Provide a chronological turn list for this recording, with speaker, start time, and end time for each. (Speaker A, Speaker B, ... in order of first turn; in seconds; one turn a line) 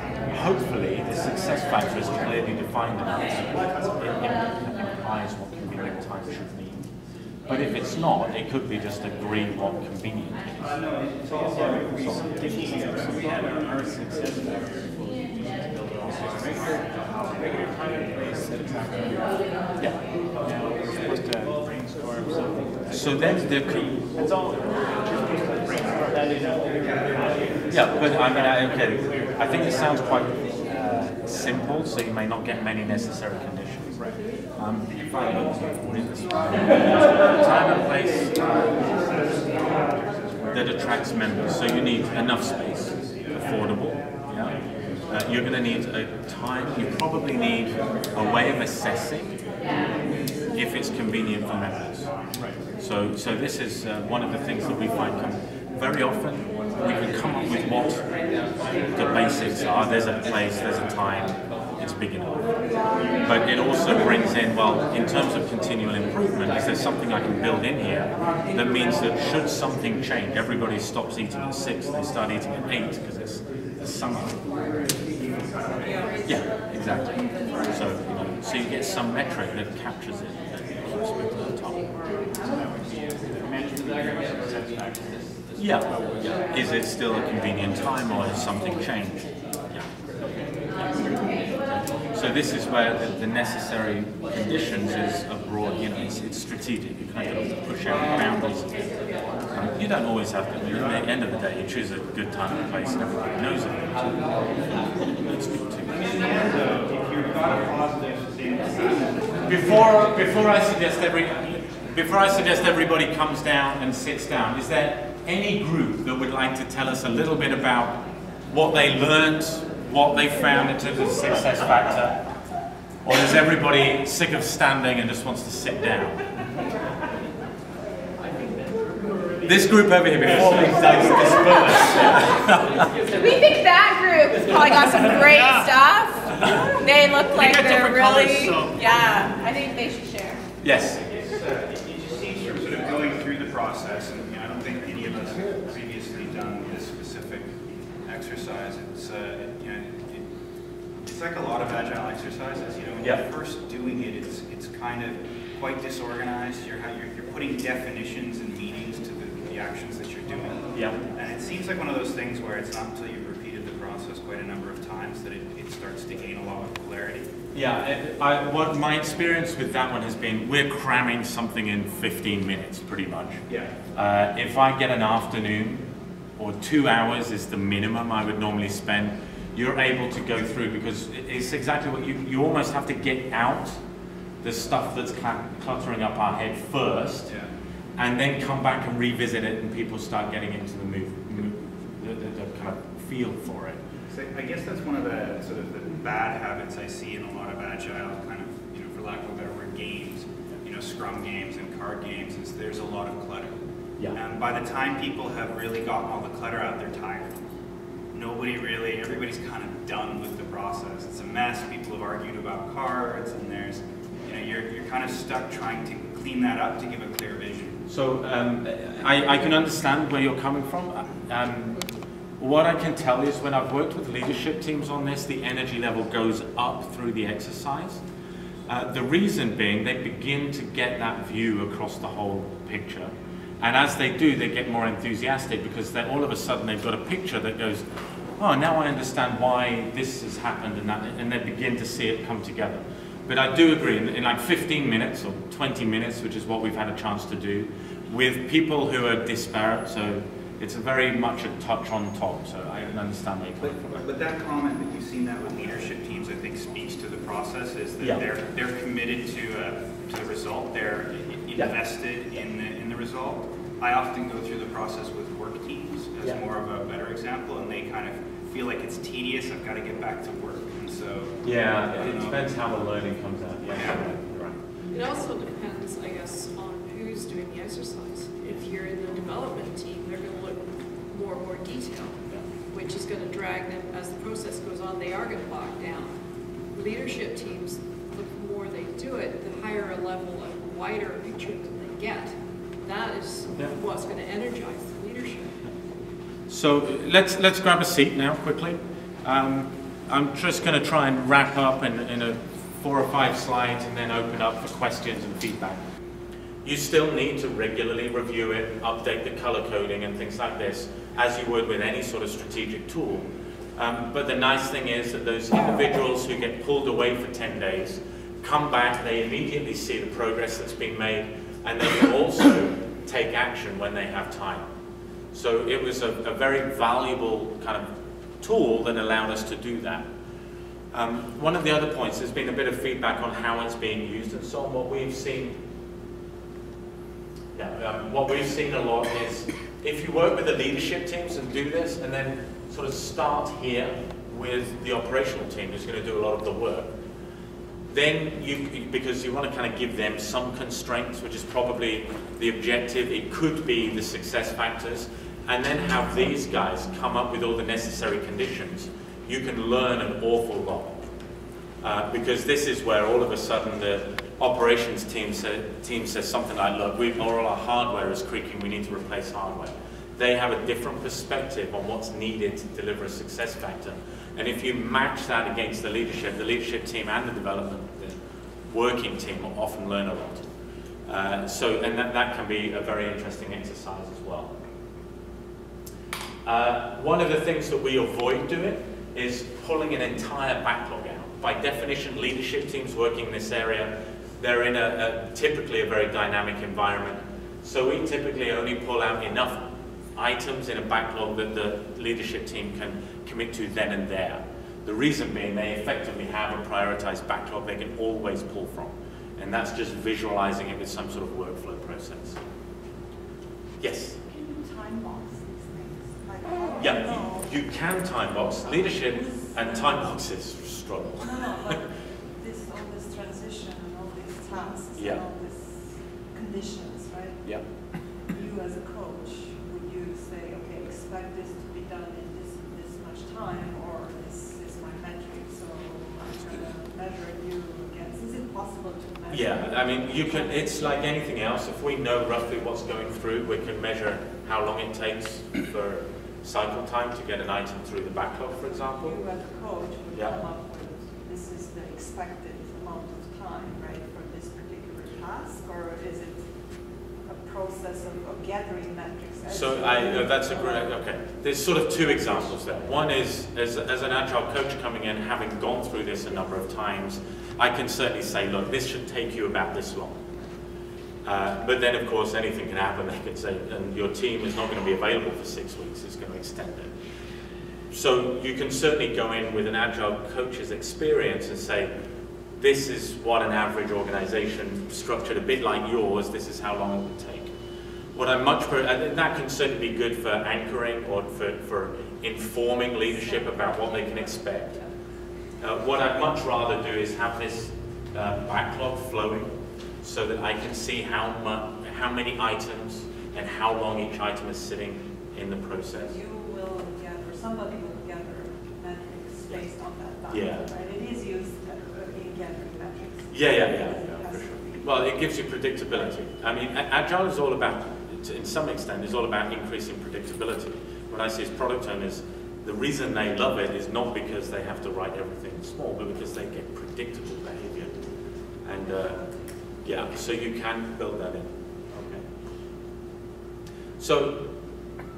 Speaker A: 0.3-6.8
Speaker A: 7.5-10.8
Speaker B: 11.6-19.3
Speaker B: 19.9-26.3
Speaker A: 22.9-24.0
Speaker C: 26.8-27.8
Speaker A: 27.7-34.0
Speaker B: 27.8-29.4
Speaker A: 34.5-38.3
Speaker C: 34.9-35.2
Speaker C: 39.0-40.7
Speaker A: 40.5-49.4
Speaker A: 50.5-52.1
Speaker B: 52.3-52.6
Speaker A: 52.8-58.1
Speaker A: 58.9-62.5
Speaker A: 63.2-74.4
Speaker A: 76.2-81.8
Speaker C: 82.4-85.4
Speaker A: 85.6-89.9
Speaker A: 92.1-98.8
Speaker A: 99.5-104.2
Speaker A: 105.1-105.9
Speaker C: 105.8-109.8
Speaker A: 109.5-122.2
Speaker A: 123.0-126.2
Speaker A: 129.4-132.8
Speaker B: 130.3-131.1
Speaker D: 133.1-140.4
Speaker B: 137.3-138.7
Speaker A: 140.6-141.0
Speaker C: 141.1-147.5
Speaker C: 148.0-150.2
Speaker C: 151.0-167.3
Speaker A: 160.7-161.0
Speaker A: 167.5-173.4
Speaker C: 173.5-173.7
Speaker A: 173.9-175.8
Speaker A: 176.4-183.8
Speaker A: 184.4-187.3
Speaker A: 188.0-193.8
Speaker C: 194.1-203.6
Speaker C: 204.1-207.3
Speaker C: 208.1-217.8
Speaker A: 217.9-221.8
Speaker A: 222.4-228.0
Speaker A: 228.7-237.8
Speaker A: 238.4-253.9
Speaker C: 253.6-271.4
Speaker A: 271.4-274.9
Speaker C: 271.9-272.5
Speaker C: 273.7-274.0
Speaker E: 274.9-286.1
Speaker E: 286.7-295.6
Speaker A: 296.5-305.8
Speaker A: 306.6-313.2
Speaker A: 313.8-324.7
Speaker A: 325.3-327.9
Speaker A: 328.4-330.1
Speaker A: 330.9-335.6
Speaker A: 337.5-346.9
Speaker A: 347.9-361.0
Speaker A: 361.8-378.2
Speaker A: 378.7-380.5
Speaker A: 381.1-384.5
Speaker A: 386.4-412.4
Speaker A: 413.8-414.2
Speaker F: 414.3-417.5
Speaker A: 416.8-421.8
Speaker F: 418.6-420.0
Speaker F: 421.2-440.9
Speaker A: 424.9-425.2
Speaker A: 439.3-449.2
Speaker F: 448.9-460.9
Speaker A: 450.1-450.4
Speaker A: 459.5-470.3
Speaker F: 462.0-462.5
Speaker A: 471.2-476.9
Speaker A: 477.9-481.9
Speaker A: 482.6-487.5
Speaker A: 488.1-494.7
Speaker F: 493.2-494.9
Speaker A: 495.6-506.1
Speaker F: 506.0-515.0
Speaker A: 510.3-510.7
Speaker A: 513.3-528.0
Speaker A: 528.6-529.2
Speaker A: 529.8-532.2
Speaker A: 534.0-534.5